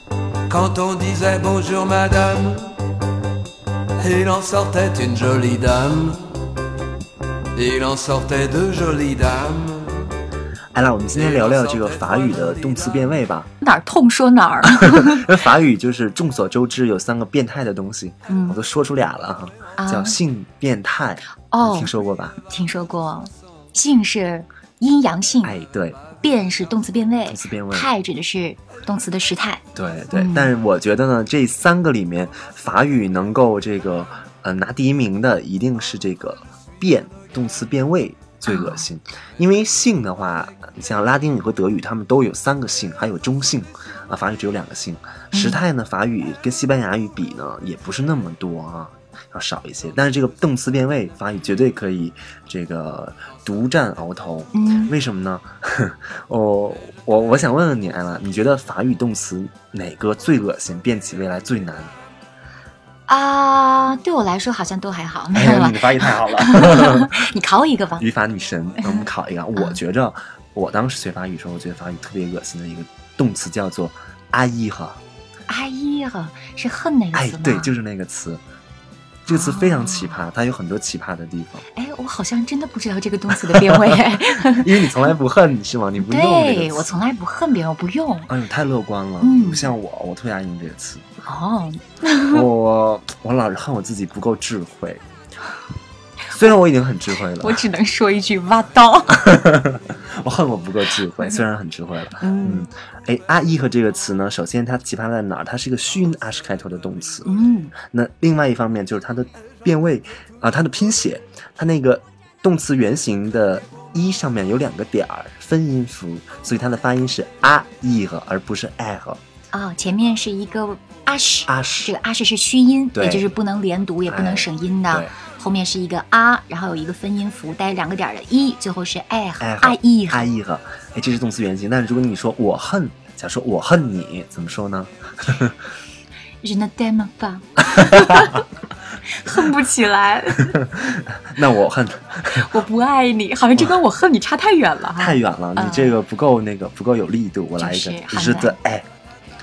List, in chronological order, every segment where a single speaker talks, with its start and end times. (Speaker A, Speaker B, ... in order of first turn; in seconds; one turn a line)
Speaker A: 0.5-2.7
Speaker A: 4.0-6.3
Speaker A: 7.5-10.1
Speaker B: 10.7-13.5
Speaker A: 11.1-12.9
Speaker C: 13.6-15.3
Speaker B: 14.6-22.4
Speaker C: 18.3-18.6
Speaker C: 19.8-20.2
Speaker C: 21.5-25.6
Speaker B: 25.4-26.1
Speaker C: 26.1-30.5
Speaker B: 27.3-27.9
Speaker B: 29.8-61.9
Speaker C: 38.5-38.9
Speaker C: 45.3-45.6
Speaker C: 54.5-54.9
Speaker C: 63.1-68.0
Speaker B: 65.3-67.2
Speaker B: 68.0-75.0
Speaker C: 68.8-69.8
Speaker C: 75.5-77.7
Speaker B: 77.1-78.4
Speaker B: 79.2-81.6
Speaker C: 79.3-80.2
Speaker C: 81.8-85.1
Speaker B: 83.5-86.9
Speaker C: 86.0-88.3
Speaker B: 88.3-91.0
Speaker C: 89.2-89.8
Speaker C: 91.2-92.5
Speaker B: 92.3-95.0
Speaker B: 96.3-97.6
Speaker C: 97.4-99.3
Speaker B: 99.2-107.3
Speaker C: 102.2-102.7
Speaker C: 107.2-107.8
Speaker B: 107.9-119.2
Speaker C: 119.5-130.3
Speaker B: 121.5-121.9
Speaker B: 123.0-123.3
Speaker B: 124.1-125.1
Speaker B: 129.4-135.6
Speaker C: 136.4-138.4
Speaker B: 137.9-138.2
Speaker C: 139.0-140.6
Speaker B: 140.6-142.5
Speaker C: 142.3-146.0
Speaker B: 144.9-148.9
Speaker C: 147.6-148.6